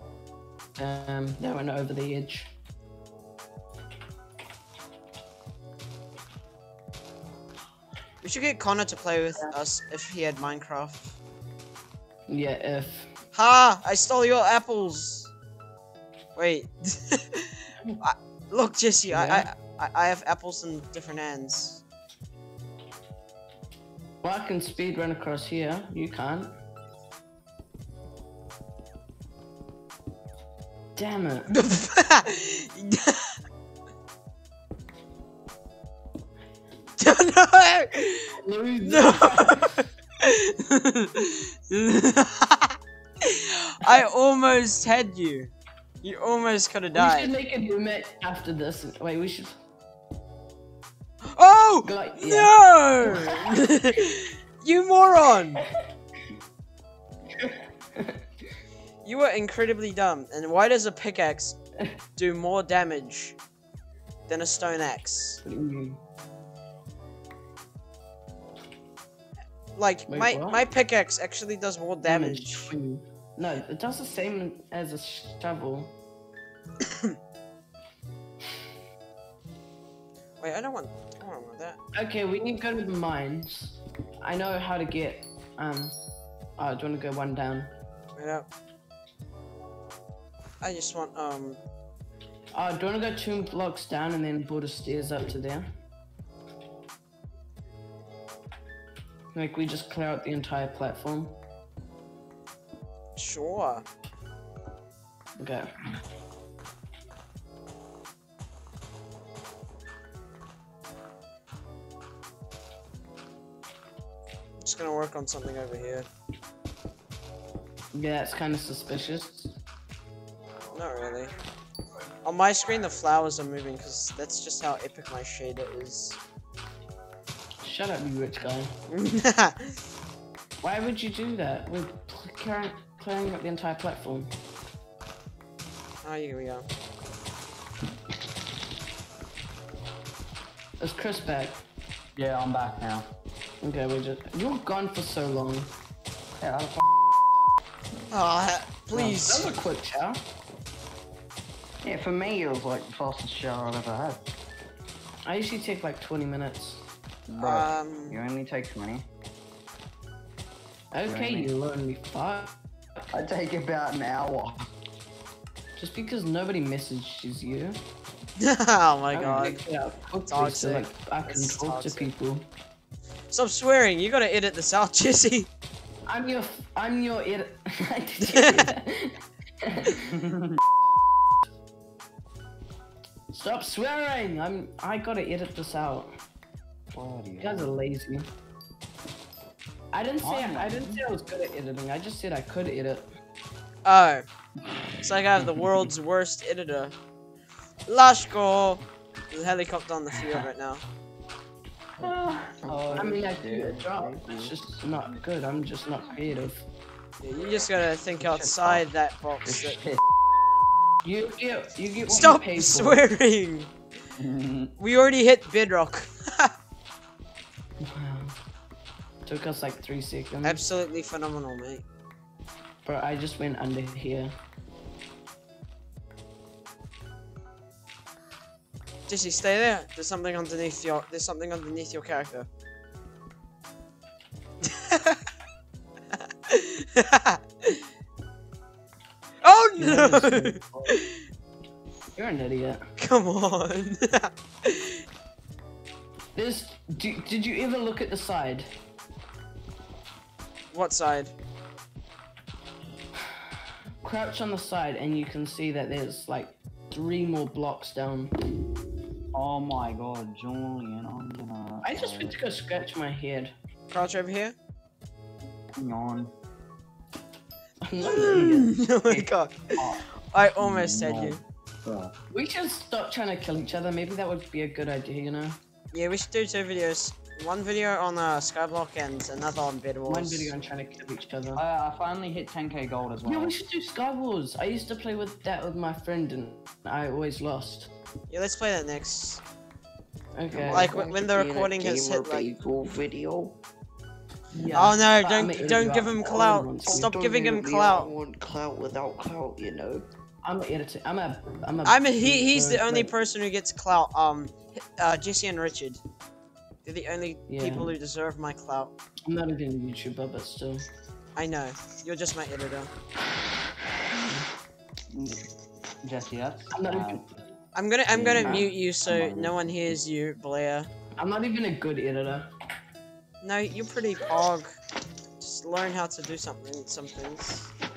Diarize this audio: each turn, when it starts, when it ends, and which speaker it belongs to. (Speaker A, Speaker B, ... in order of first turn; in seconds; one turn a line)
Speaker A: 0.8-2.5
Speaker B: 8.2-11.1
Speaker A: 12.3-13.1
Speaker B: 13.3-15.3
Speaker B: 16.4-21.8
Speaker A: 19.1-19.5
Speaker A: 24.2-26.6
Speaker A: 30.9-31.5
Speaker B: 31.5-33.3
Speaker B: 37.0-45.5
Speaker A: 38.3-39.7
Speaker B: 46.0-47.3
Speaker A: 46.9-49.6
Speaker B: 51.3-55.6
Speaker A: 51.8-53.7
Speaker A: 57.4-58.2
Speaker B: 59.0-61.6
Speaker B: 62.1-63.4
Speaker B: 64.3-65.4
Speaker A: 65.4-66.0
Speaker B: 69.8-72.7
Speaker A: 70.1-70.6
Speaker A: 72.1-75.9
Speaker B: 76.8-77.1
Speaker B: 80.4-81.8
Speaker A: 81.9-86.0
Speaker A: 86.6-87.7
Speaker B: 88.1-88.5
Speaker B: 90.6-91.6
Speaker A: 92.5-95.7
Speaker A: 99.3-101.4
Speaker B: 103.1-103.8
Speaker A: 105.4-105.7
Speaker B: 114.6-116.1
Speaker A: 117.9-119.6
Speaker B: 120.7-121.3
Speaker B: 122.2-126.2
Speaker A: 127.6-128.7
Speaker B: 128.9-129.8
Speaker A: 130.6-134.3
Speaker B: 136.0-136.7
Speaker A: 140.8-141.6
Speaker C: 142.2-143.1
Speaker A: 143.6-145.7
Speaker C: 146.4-146.8
Speaker B: 148.1-149.6
Speaker A: 148.9-150.2
Speaker C: 151.8-154.2
Speaker A: 155.2-156.8
Speaker C: 157.3-159.1
Speaker B: 157.4-158.2
Speaker A: 160.9-163.0
Speaker C: 161.0-161.5
Speaker C: 163.1-164.7
Speaker A: 165.8-167.8
Speaker B: 168.4-169.6
Speaker A: 169.1-172.5
Speaker B: 170.3-172.1
Speaker B: 173.3-175.5
Speaker A: 176.1-179.9
Speaker B: 178.2-178.7
Speaker C: 180.1-180.6
Speaker A: 183.3-186.1
Speaker C: 186.9-187.8
Speaker A: 187.4-188.3
Speaker A: 189.9-193.1
Speaker C: 190.2-191.1
Speaker B: 193.8-194.2
Speaker B: 195.0-196.9
Speaker B: 197.9-200.8
Speaker C: 202.0-203.1
Speaker D: 202.6-204.7
Speaker A: 202.9-206.7
Speaker B: 207.2-209.8
Speaker C: 208.2-208.9
Speaker C: 209.4-210.0
Speaker A: 211.0-213.0
Speaker B: 212.1-213.7
Speaker C: 214.2-214.7
Speaker B: 214.8-216.5
Speaker A: 217.8-218.4
Speaker A: 219.2-220.6
Speaker B: 220.4-221.8
Speaker A: 222.8-224.3
Speaker B: 229.1-232.5
Speaker B: 234.6-235.2
Speaker B: 236.1-237.8
Speaker B: 239.4-241.2
Speaker A: 239.8-241.0
Speaker A: 242.1-242.8
Speaker B: 243.0-245.0
Speaker A: 246.3-248.7
Speaker B: 250.7-251.3
Speaker A: 254.0-258.3
Speaker C: 259.3-262.4
Speaker A: 261.8-263.5
Speaker B: 263.9-264.5
Speaker C: 265.8-266.3
Speaker A: 267.8-268.8
Speaker B: 268.0-271.4
Speaker C: 268.2-272.1
Speaker A: 272.3-275.6
Speaker B: 275.9-280.5
Speaker A: 280.1-281.6
Speaker C: 281.5-283.6
Speaker A: 283.2-287.9
Speaker B: 288.3-289.4
Speaker A: 290.3-291.1
Speaker D: 290.5-293.6
Speaker B: 290.7-292.5
Speaker A: 294.5-297.1
Speaker B: 294.7-298.1
Speaker D: 296.2-300.1
Speaker A: 300.4-303.1
Speaker B: 301.8-306.0
Speaker B: 306.8-308.9
Speaker A: 307.5-307.9
Speaker A: 309.2-310.9
Speaker B: 311.4-312.9
Speaker C: 315.1-315.5
Speaker C: 316.0-317.3
Speaker A: 316.7-317.2
Speaker B: 317.7-320.9
Speaker C: 318.1-319.8
Speaker A: 321.2-322.5
Speaker B: 323.4-324.7
Speaker B: 325.4-327.7